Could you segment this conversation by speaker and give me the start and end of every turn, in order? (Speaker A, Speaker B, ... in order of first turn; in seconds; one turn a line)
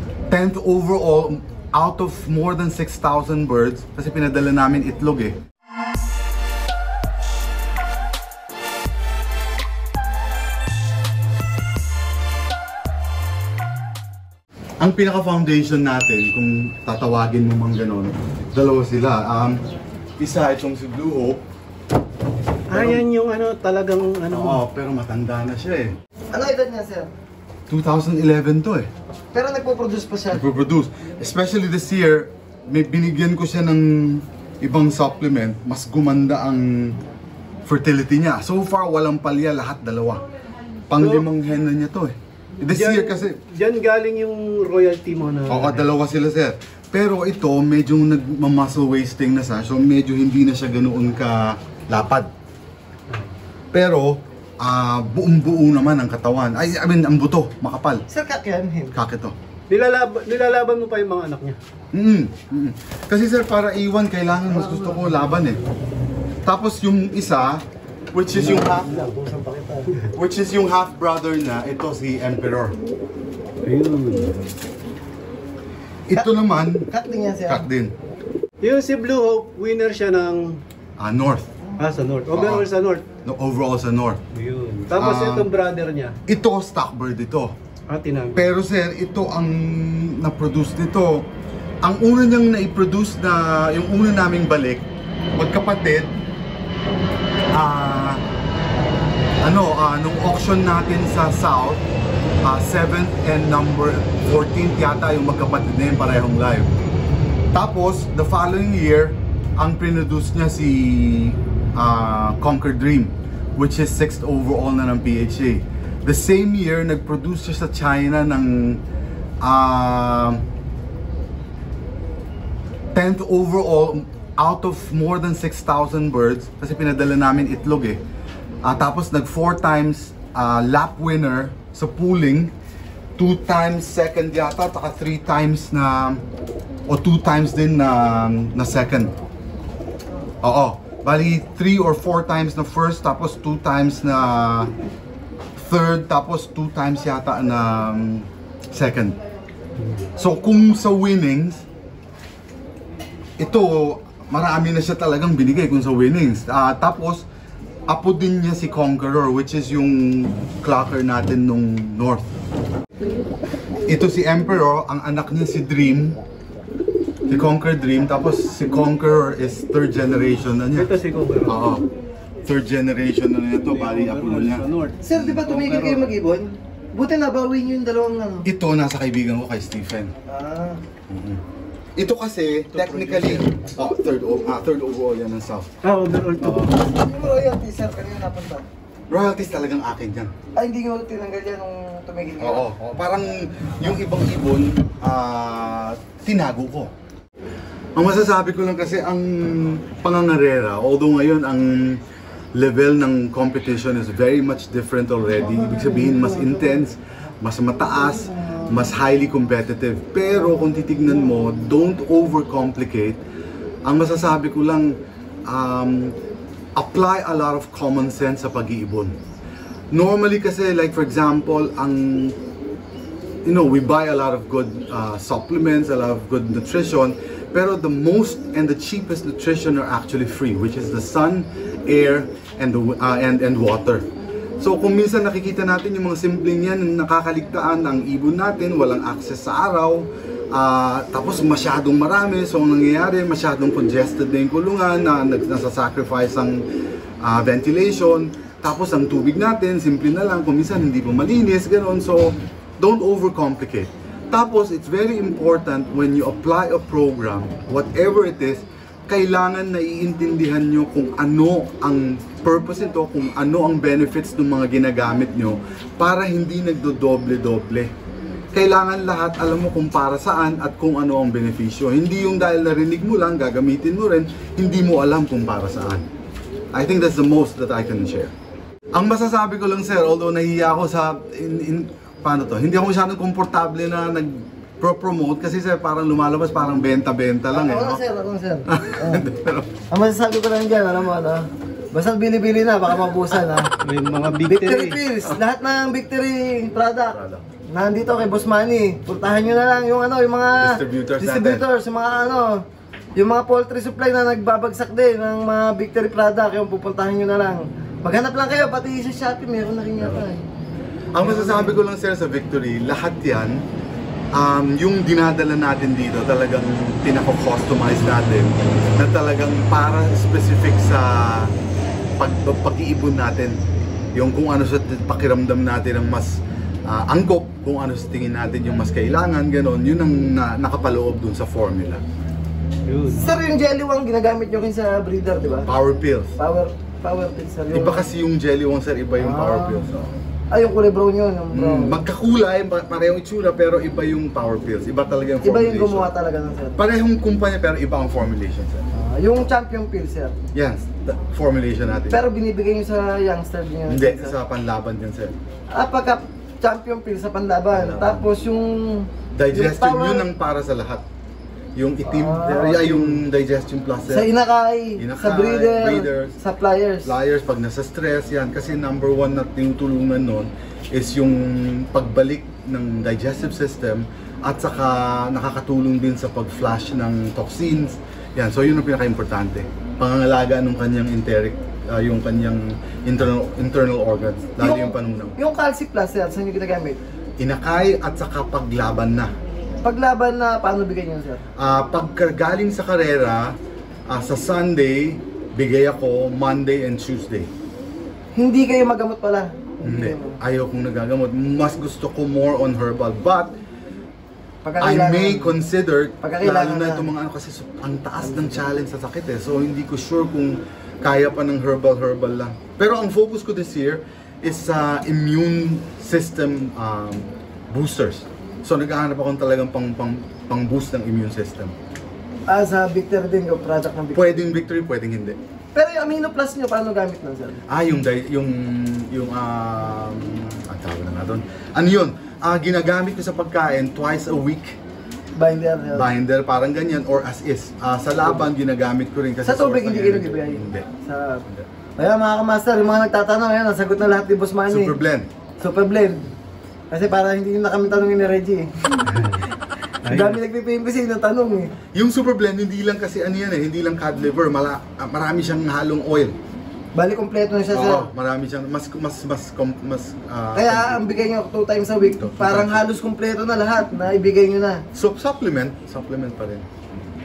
Speaker A: 0.3-5.4
Speaker A: 14.8-19.6
Speaker A: 20.2-21.4
Speaker B: 22.7-24.6
Speaker A: 22.7-23.0
Speaker A: 24.3-25.9
Speaker C: 26.3-27.1
Speaker A: 27.7-28.9
Speaker C: 29.3-30.4
Speaker A: 30.3-37.0
Speaker A: 37.6-40.2
Speaker A: 40.9-43.4
Speaker B: 41.0-41.3
Speaker B: 42.6-45.9
Speaker A: 45.5-52.3
Speaker A: 53.7-58.1
Speaker C: 58.1-59.0
Speaker A: 58.9-59.4
Speaker B: 59.7-61.6
Speaker A: 61.9-65.6
Speaker C: 64.5-65.0
Speaker A: 66.5-68.9
Speaker B: 68.3-70.0
Speaker C: 69.2-69.7
Speaker A: 70.1-72.8
Speaker B: 73.6-74.5
Speaker A: 76.1-76.9
Speaker C: 76.2-77.7
Speaker A: 77.5-77.9
Speaker B: 78.6-80.6
Speaker A: 81.0-81.5
Speaker B: 81.8-83.0
Speaker A: 82.3-82.7
Speaker A: 83.2-84.2
Speaker B: 84.3-86.2
Speaker A: 84.9-85.5
Speaker A: 86.3-87.5
Speaker B: 87.9-88.5
Speaker A: 88.3-91.3
Speaker A: 91.8-96.1
Speaker A: 97.5-98.2
Speaker A: 99.4-101.8
Speaker A: 102.4-106.7
Speaker A: 107.5-118.8
Speaker A: 119.4-120.4
Speaker A: 123.0-128.0
Speaker A: 128.6-132.5
Speaker A: 133.2-136.2
Speaker A: 136.9-139.1
Speaker A: 140.4-144.7
Speaker A: 145.6-149.2
Speaker A: 150.1-151.6
Speaker A: 153.4-157.2
Speaker A: 157.9-162.3
Speaker A: 163.9-166.2
Speaker A: 167.3-170.9
Speaker B: 170.8-171.6
Speaker A: 171.5-171.9
Speaker A: 172.4-175.3
Speaker B: 173.7-176.2
Speaker C: 175.0-178.5
Speaker A: 178.4-180.2
Speaker C: 180.3-180.8
Speaker A: 181.1-181.4
Speaker A: 182.0-185.8
Speaker B: 182.7-183.6
Speaker B: 185.8-186.7
Speaker A: 186.4-186.8
Speaker C: 186.8-188.7
Speaker A: 189.1-190.3
Speaker C: 190.6-192.7
Speaker A: 192.4-196.9
Speaker A: 198.0-202.0
Speaker A: 202.5-213.2
Speaker C: 205.7-206.3
Speaker A: 213.8-216.2
Speaker A: 216.8-219.2
Speaker A: 219.9-222.4
Speaker A: 223.4-234.1
Speaker A: 234.6-246.6
Speaker A: 247.2-267.9
Speaker A: 268.5-276.1
Speaker A: 276.7-278.3
Speaker A: 278.9-288.0
Speaker C: 287.5-289.3
Speaker A: 288.7-289.8
Speaker C: 289.9-293.7
Speaker B: 293.8-295.0
Speaker C: 294.4-297.2
Speaker A: 297.1-297.4
Speaker C: 297.7-302.6
Speaker A: 300.6-301.6
Speaker C: 303.2-310.4
Speaker A: 311.1-313.6
Speaker C: 311.2-311.8
Speaker A: 314.3-321.5
Speaker A: 322.2-323.6
Speaker A: 324.1-332.0
Speaker B: 332.9-333.3
Speaker C: 333.1-335.7
Speaker A: 335.7-336.3
Speaker C: 336.4-338.1
Speaker A: 337.7-340.1
Speaker C: 339.2-339.9
Speaker C: 340.5-342.0
Speaker A: 341.5-346.1
Speaker C: 345.4-346.8
Speaker A: 346.8-348.9
Speaker C: 348.9-350.4
Speaker A: 350.5-352.2
Speaker C: 352.1-354.4
Speaker A: 353.9-355.4
Speaker C: 355.7-360.3
Speaker A: 357.7-358.3
Speaker A: 359.3-361.1
Speaker A: 361.8-364.3
Speaker C: 362.1-363.2
Speaker C: 364.1-367.1
Speaker A: 365.0-366.4
Speaker A: 367.1-385.4
Speaker C: 384.6-387.0
Speaker A: 387.4-389.3
Speaker C: 389.8-391.4
Speaker A: 391.6-393.6
Speaker A: 394.1-397.5
Speaker C: 398.4-400.4
Speaker A: 399.8-403.6
Speaker C: 404.6-405.6
Speaker A: 404.8-421.8
Speaker C: 406.2-407.1
Speaker C: 422.5-424.6
Speaker A: 424.1-425.4
Speaker C: 425.7-427.6
Speaker A: 427.7-434.8
Speaker C: 435.4-436.1
Speaker A: 435.9-440.9
Speaker C: 439.4-441.4
Speaker C: 442.0-445.0
Speaker A: 444.7-445.3
Speaker C: 445.6-446.3
Speaker C: 446.9-449.0
Speaker B: 449.2-449.5
Speaker B: 450.0-450.4
Speaker C: 450.1-451.7
Speaker A: 451.9-456.4
Speaker C: 456.9-458.1
Speaker A: 457.7-461.1
Speaker C: 460.5-464.8
Speaker A: 462.2-462.9
Speaker A: 464.9-466.7